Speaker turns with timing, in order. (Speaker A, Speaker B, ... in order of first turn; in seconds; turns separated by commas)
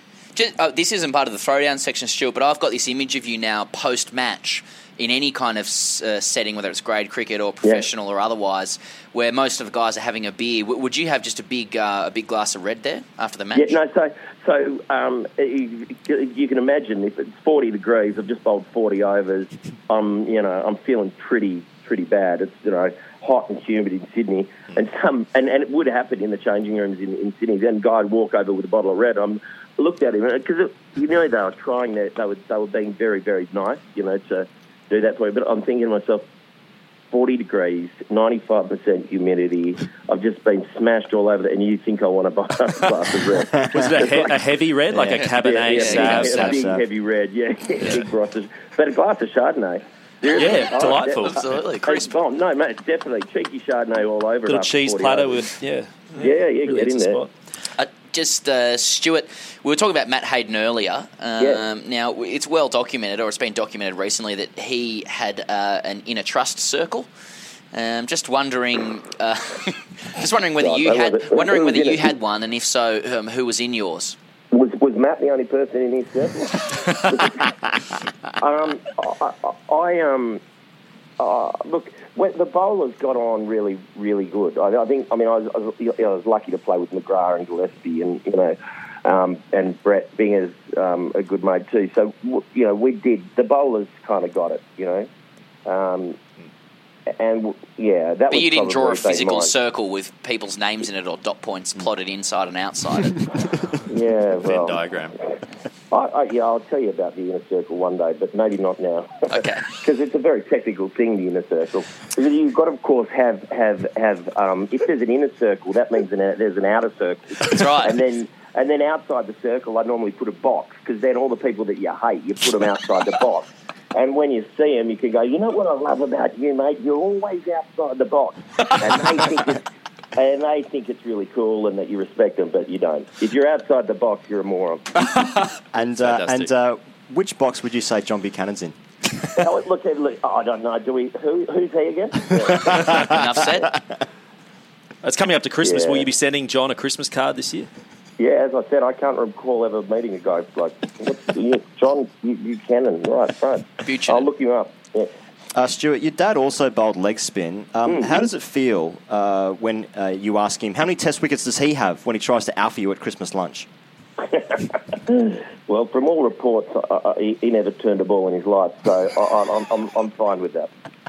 Speaker A: 0.3-13.8, Speaker B: 13.5-36.2, Speaker B: 37.1-44.3, Speaker C: 43.7-46.6, Speaker A: 45.2-46.4, Speaker B: 45.4-51.3, Speaker D: 46.4-46.8, Speaker C: 50.3-51.6, Speaker A: 51.2-52.1, Speaker B: 51.8-55.5, Speaker C: 54.5-57.3, Speaker B: 56.2-57.2, Speaker A: 57.8-67.1, Speaker A: 67.7-74.2, Speaker B: 70.6-72.1, Speaker B: 74.5-77.8, Speaker B: 78.4-80.4, Speaker B: 81.2-95.1, Speaker B: 95.7-96.2, Speaker B: 97.2-99.5, Speaker A: 98.3-103.2, Speaker B: 103.9-104.8, Speaker C: 104.4-105.2, Speaker B: 105.9-134.9, Speaker A: 109.3-109.7, Speaker A: 117.5-117.9, Speaker C: 135.2-136.5, Speaker D: 135.7-138.8, Speaker B: 139.4-143.2, Speaker A: 142.7-143.7, Speaker C: 145.0-147.7, Speaker B: 145.6-146.1, Speaker B: 148.2-155.1, Speaker A: 153.8-154.3, Speaker D: 155.6-163.7, Speaker B: 157.9-158.2, Speaker B: 164.3-170.7